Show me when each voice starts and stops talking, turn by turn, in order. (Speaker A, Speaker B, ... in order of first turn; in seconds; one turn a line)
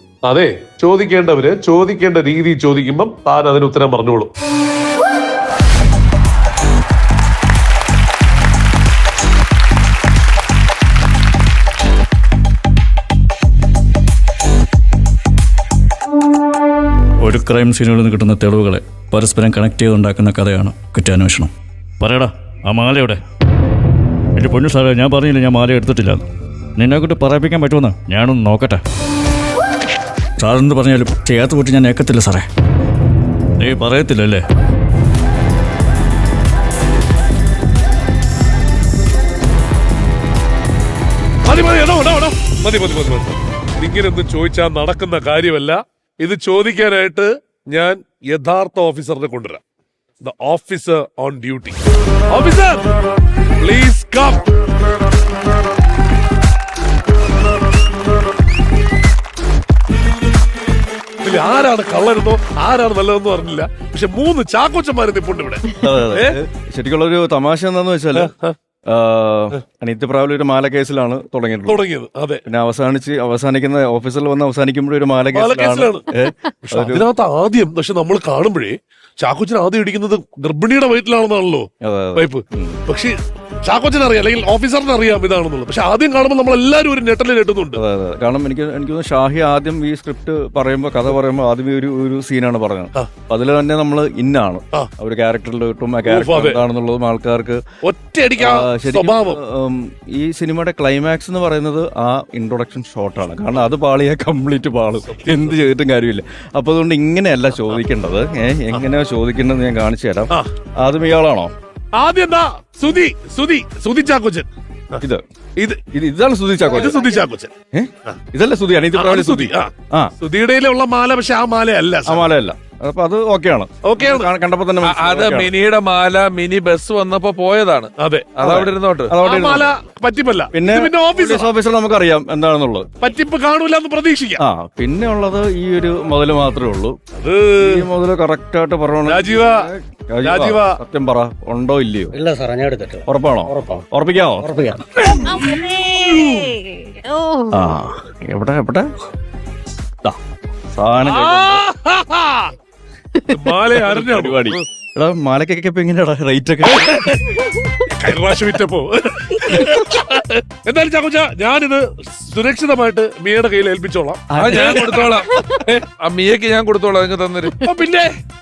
Speaker A: 0.2-4.3
Speaker B: 17.2-21.5
Speaker B: 22.0-23.2
Speaker B: 24.4-26.2
Speaker B: 26.8-28.8
Speaker B: 30.6-31.7
Speaker B: 33.6-34.4
Speaker A: 41.5-49.6
Speaker A: 50.2-52.8
Speaker A: 53.6-54.4
Speaker A: 61.2-66.3
Speaker C: 65.8-68.3
Speaker A: 68.2-68.5
Speaker C: 68.9-71.8
Speaker A: 71.7-72.4
Speaker C: 72.5-77.1
Speaker A: 75.3-76.0
Speaker A: 76.6-87.8
Speaker C: 81.8-82.8
Speaker C: 87.8-97.6
Speaker A: 96.1-96.6
Speaker A: 97.8-99.4
Speaker C: 98.4-111.5
Speaker A: 105.1-105.6
Speaker A: 111.9-115.0
Speaker C: 115.9-117.0
Speaker A: 116.7-117.5
Speaker C: 117.7-120.1
Speaker A: 118.9-122.2
Speaker C: 122.0-125.5
Speaker A: 123.8-124.3
Speaker D: 124.8-129.2
Speaker A: 128.0-128.3
Speaker C: 128.4-129.7
Speaker A: 129.2-131.5
Speaker C: 130.5-132.9
Speaker A: 133.0-134.4
Speaker C: 134.4-136.9
Speaker A: 137.1-137.8
Speaker C: 137.6-142.1
Speaker A: 139.1-139.6
Speaker A: 140.2-140.8
Speaker E: 142.1-143.8
Speaker C: 143.1-144.4
Speaker E: 144.4-144.8
Speaker F: 145.3-147.5
Speaker C: 147.5-148.9
Speaker C: 150.7-151.6
Speaker A: 151.0-152.5
Speaker A: 153.3-154.6
Speaker C: 153.8-157.0
Speaker A: 158.0-165.1
Speaker C: 164.3-165.1
Speaker D: 164.3-167.7
Speaker A: 167.6-168.1